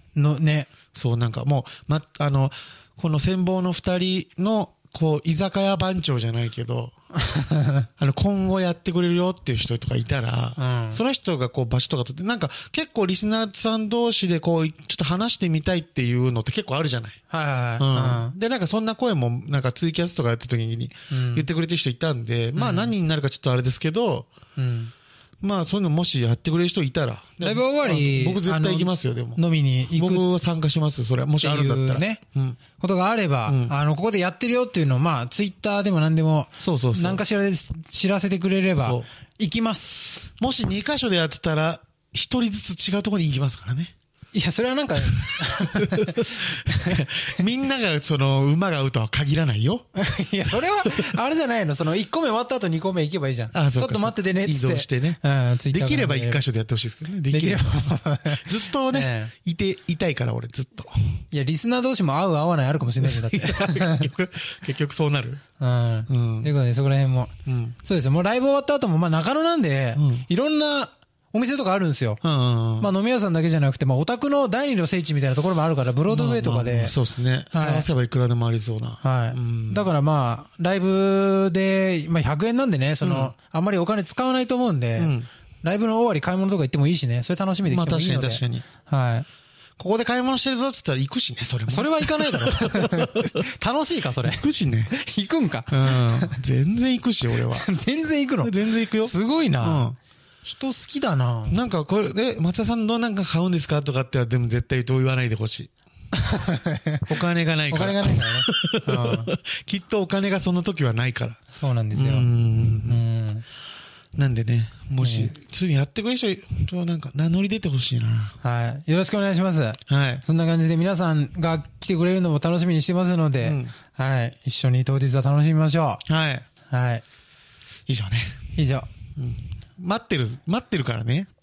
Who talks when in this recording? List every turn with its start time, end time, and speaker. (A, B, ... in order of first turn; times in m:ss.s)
0:00.2-0:00.7 A
0:00.9-0:06.9 B
0:07.2-0:07.9 A
0:08.0-0:17.2 B
0:10.6-0:11.0 A
0:17.3-0:18.4 A
0:17.8-0:24.3 B
0:21.1-0:21.5 A
0:22.6-0:22.9 A
0:24.6-0:24.9 A
0:25.4-0:29.4 B
0:27.4-0:30.3 A
0:29.9-0:32.6 B
0:31.4-0:32.2 A
0:32.8-0:40.3 A
0:33.5-0:33.7 B
0:36.6-0:37.2 B
0:38.8-0:39.0 B
0:40.4-0:43.9 B
0:44.3-0:47.4 A
0:45.1-0:49.8 B
0:50.0-0:56.4 A
0:53.5-1:01.2 B
0:57.3-0:59.3 A
1:01.3-1:04.1 A
1:03.0-1:05.4 B
1:05.6-1:12.2 A
1:06.1-1:06.5 B
1:07.5-1:07.8 B
1:10.0-1:10.3 B
1:12.2-1:12.9 B
1:12.8-1:16.9 A
1:16.1-1:19.9 B
1:17.5-1:17.9 A
1:19.0-1:29.3 A
1:23.0-1:23.3 B
1:25.0-1:25.3 B
1:27.7-1:28.7 B
1:29.8-1:33.4 B
1:31.7-1:36.4 A
1:34.2-1:34.9 B
1:35.7-1:37.7 B
1:37.5-1:39.9 A
1:38.4-1:40.0 B
1:40.4-1:41.6 A
1:41.5-1:45.7 B
1:46.1-1:47.0 A
1:47.1-1:51.4 B
1:47.7-1:49.3 A
1:51.5-1:52.3 A
1:51.9-1:53.0 B
1:52.8-1:53.4 A
1:54.2-1:58.4 B
1:55.0-1:55.3 A
1:58.4-2:06.0 A
1:59.9-2:00.2 B
2:03.4-2:03.7 B
2:06.1-2:06.5 B
2:06.7-2:07.0 A
2:07.9-2:08.4 B
2:08.6-2:08.9 A
2:09.2-2:11.3 B